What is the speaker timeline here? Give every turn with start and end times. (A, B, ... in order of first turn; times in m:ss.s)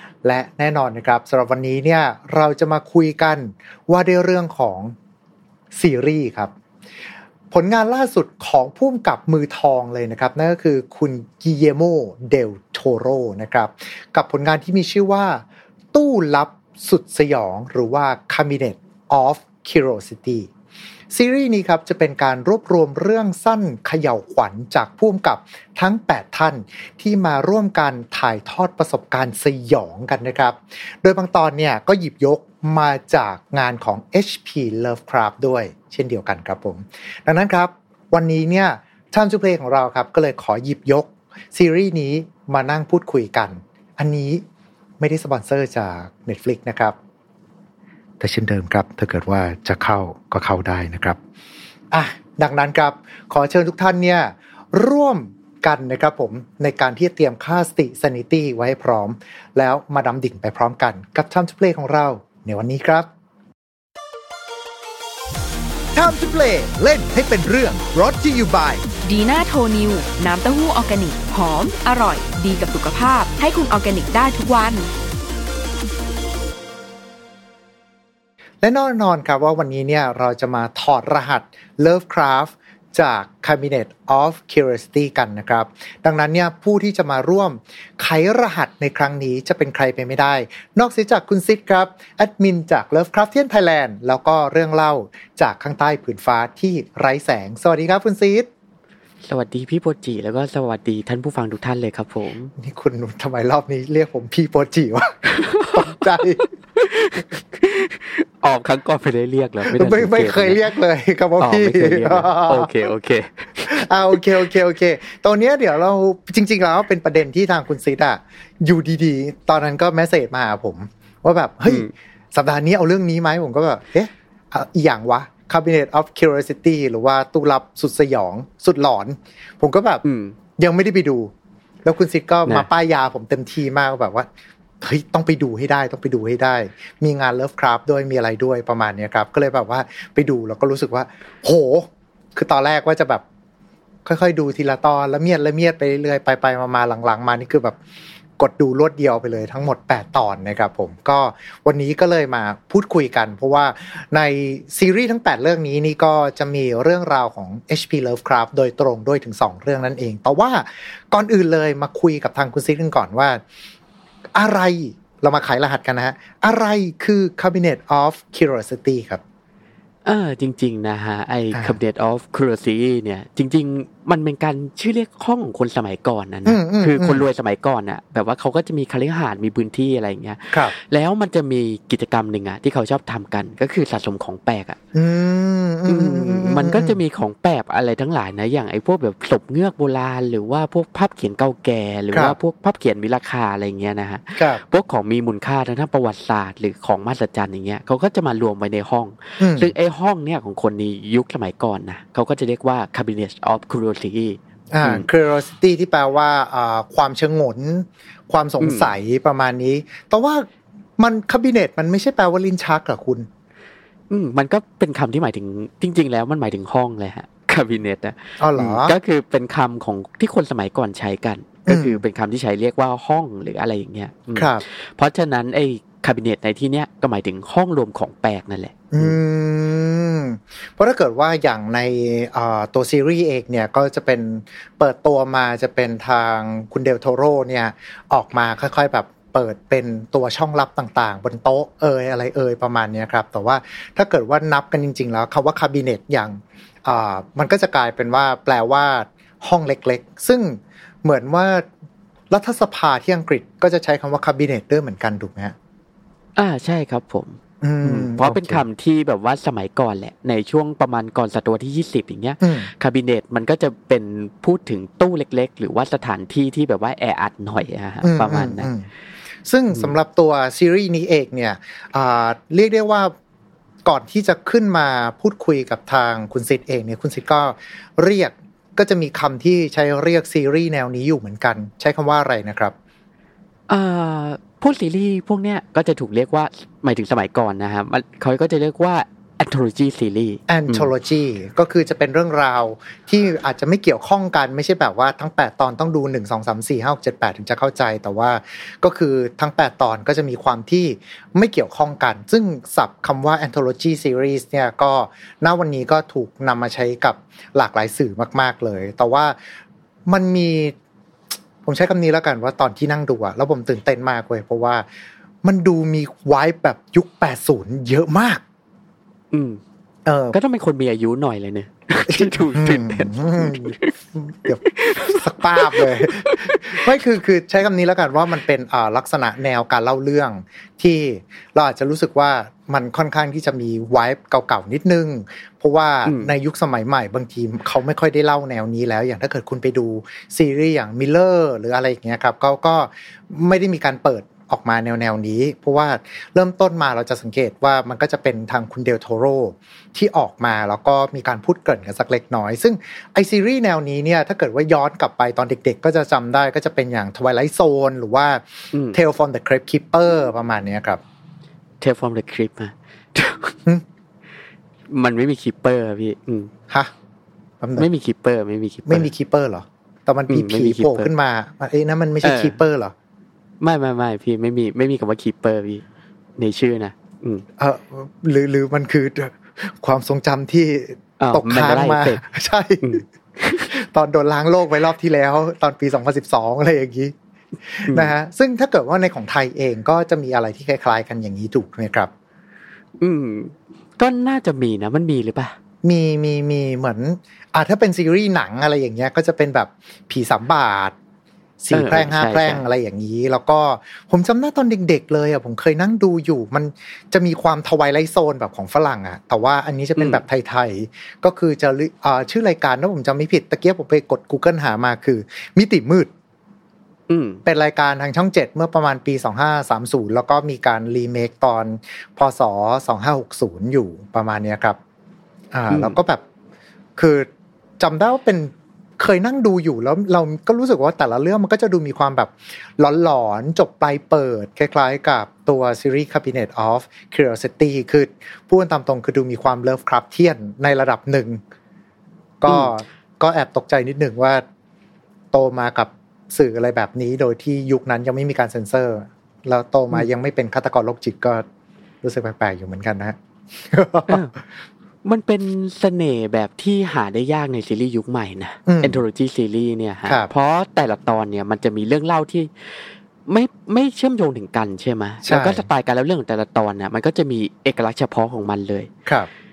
0:00.2-0:04.9 A
0:05.7-0:06.5 A
0:07.5-0:15.4 A
0:15.9-0:20.5 A
0:21.1-0:44.4 A
0:45.0-0:47.0 A
0:48.2-0:51.2 A
0:51.9-1:03.1 A
1:06.0-1:08.8 A
1:09.0-1:14.9 B
1:18.6-1:38.5 A
1:39.2-1:42.5 C
1:42.6-1:46.5 A
1:45.3-1:50.7 C
1:49.7-1:52.7 A
1:51.4-1:54.2 C
1:53.7-2:10.0 A
2:01.7-2:01.9 C
2:10.0-2:10.4 C
2:10.6-2:11.3 A
2:11.8-2:14.3 A
2:14.8-2:23.2 A
2:24.1-2:27.8 A
2:28.4-2:43.4 A
2:44.4-2:49.2 A
2:50.0-3:04.8 C
2:56.5-2:57.2 A
3:05.0-3:07.0 A
3:05.9-3:25.1 C
3:14.4-3:14.6 A
3:19.4-3:19.7 A
3:24.7-3:30.5 A
3:28.6-3:28.9 C
3:31.0-3:33.3 A
3:34.1-3:49.2 C
3:38.4-3:39.0 A
3:41.7-3:42.0 A
3:44.4-3:44.6 A
3:48.9-4:11.7 A
4:12.3-4:15.6 A
4:16.4-4:28.7 C
4:17.6-4:18.6 A
4:22.4-4:22.7 A
4:28.0-4:28.9 A
4:29.5-4:33.1 A
4:33.8-4:42.7 A
4:43.7-4:50.9 C
4:50.5-5:09.4 A
5:10.1-5:10.7 A
5:11.6-5:14.8 A
5:15.4-5:18.4 A
5:19.3-5:19.6 C
5:20.1-5:20.4 A
5:20.3-5:23.9 C
5:22.1-6:01.0 A
5:24.7-5:26.8 C
5:36.0-5:36.3 C
5:58.7-5:59.0 C
6:01.8-6:03.6 C
6:04.9-6:06.5 C
6:07.6-6:07.9 A
6:07.8-6:09.1 C
6:08.9-6:12.9 A
6:10.3-6:11.1 C
6:12.2-6:12.6 C
6:13.6-6:15.8 C
6:16.4-6:17.4 C
6:17.6-6:23.0 A
6:21.2-6:22.2 C
6:22.8-6:23.7 C
6:23.6-6:27.1 A
6:27.7-6:32.1 A
6:27.9-6:28.1 C
6:33.0-6:35.6 C
6:35.8-6:41.0 A
6:41.6-6:56.1 A
6:41.7-6:42.6 C
6:50.0-6:50.2 C
6:57.1-6:57.4 C
6:57.4-7:04.8 A
7:05.5-7:06.2 A
7:05.7-7:06.0 C
7:07.0-7:07.3 A
7:07.8-7:21.4 A
7:22.4-7:24.4 A
7:22.5-7:22.7 C
7:25.3-7:31.4 A
7:32.0-7:34.2 A
7:34.1-7:34.4 C
7:35.0-7:48.9 C
7:38.7-7:39.0 A
7:45.2-7:45.6 A